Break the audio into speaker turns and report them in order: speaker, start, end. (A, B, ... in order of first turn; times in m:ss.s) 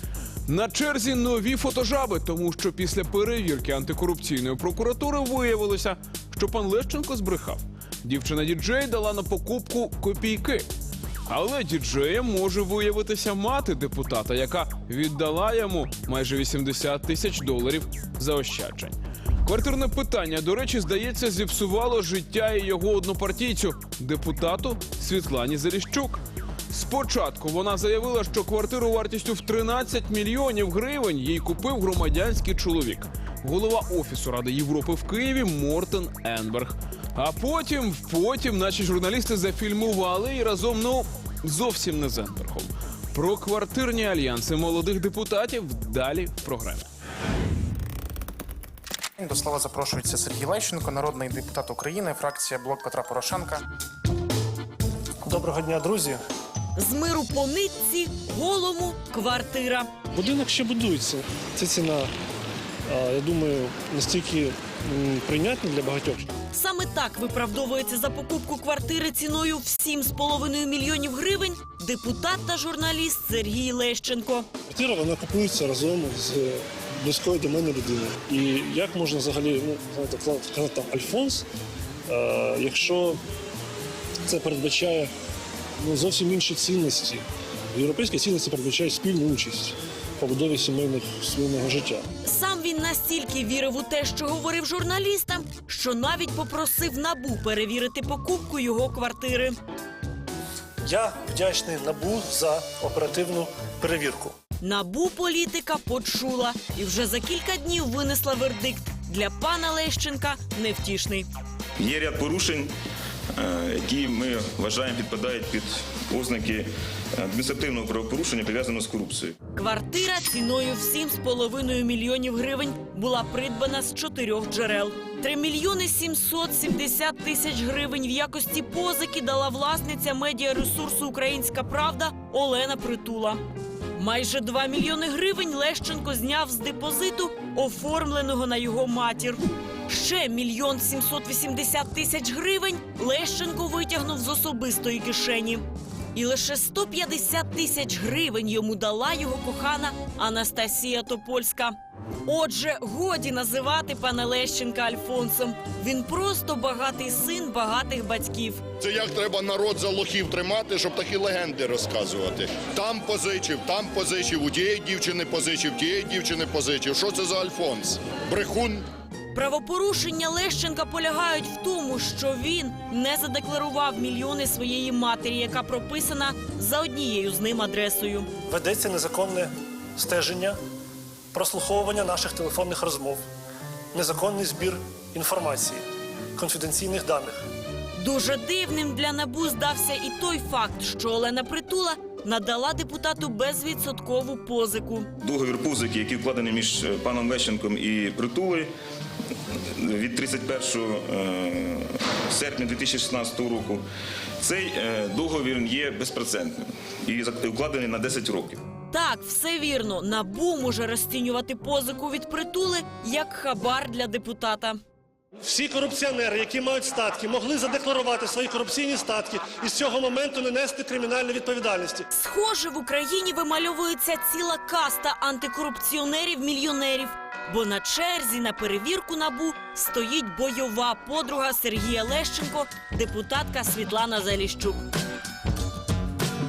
0:00.5-0:10.7 A
0:11.3-0:46.8 A
0:49.2-0:53.6 B
0:55.2-0:56.2 C
0:56.8-0:59.9 D
1:00.1-1:02.1 C
1:02.9-1:06.3 C
1:06.5-1:14.5 D
1:14.7-1:21.4 C
1:22.1-1:23.2 C
1:24.3-1:25.1 C
1:25.8-1:32.1 C
1:32.2-1:39.6 D
1:40.8-1:44.4 C
1:44.6-1:51.3 D
1:51.8-1:52.7 E
1:53.4-1:59.4 E
1:59.6-2:13.4 D
2:14.0-2:25.6 D
2:26.2-2:31.7 D
2:32.3-2:38.6 D
2:38.8-2:48.9 F
2:49.3-2:58.3 D
2:58.5-3:00.6 C
3:01.3-3:03.2 C
3:03.9-3:05.8 C
3:06.4-3:07.5 C
3:08.0-3:15.1 D
3:15.2-3:18.7 E
3:19.8-3:23.8 E
3:24.4-3:28.6 E
3:28.9-3:34.8 D
3:35.4-3:42.1 C
3:42.1-3:54.8 D